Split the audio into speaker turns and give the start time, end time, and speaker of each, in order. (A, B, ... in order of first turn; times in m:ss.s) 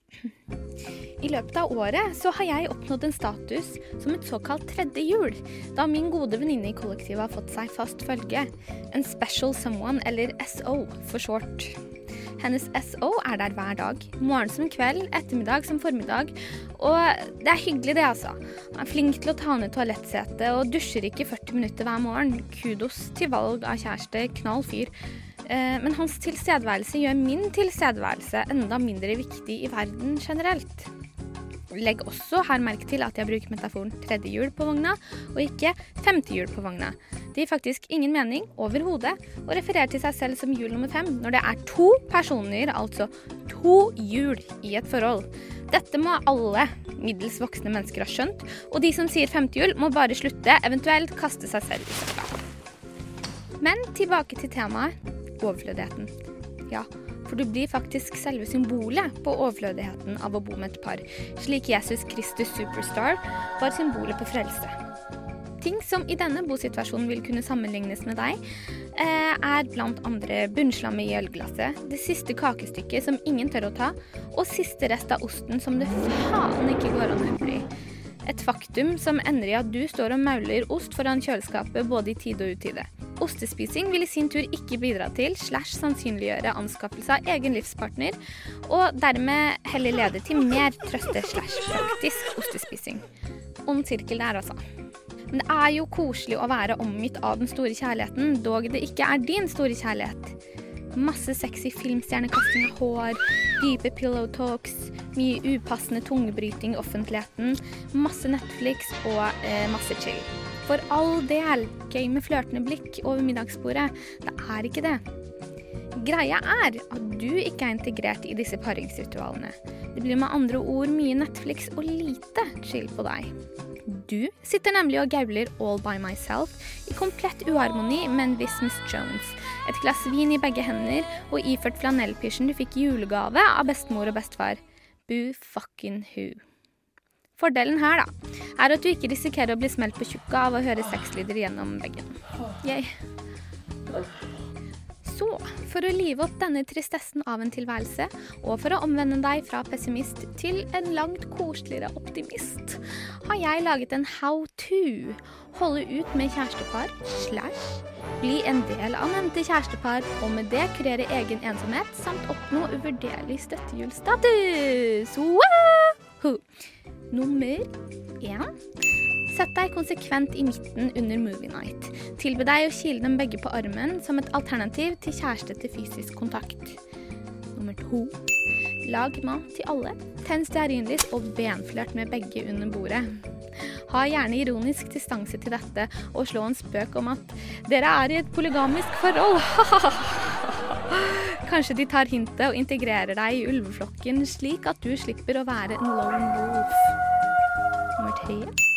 0:01.2-0:11.7 A
0:12.4-0:24.9 A
0:25.4-0:30.9 A
0:31.7-0:52.3 A
0:53.6-0:56.1 A
0:56.7-1:04.7 A
1:05.6-1:08.4 A
1:08.9-1:17.7 A
1:18.2-1:33.0 A
1:33.6-1:34.6 A
1:35.3-1:40.4 A
1:40.9-1:55.0 A
1:56.0-2:03.3 A
2:03.8-2:16.4 A
2:17.4-2:22.9 A
2:25.0-2:46.4 A
2:47.1-2:47.7 A
2:48.2-2:48.5 A
2:49.3-2:56.8 A
2:57.5-2:58.2 A
2:58.8-3:03.2 A
3:03.9-3:16.9 A
3:18.0-3:18.5 A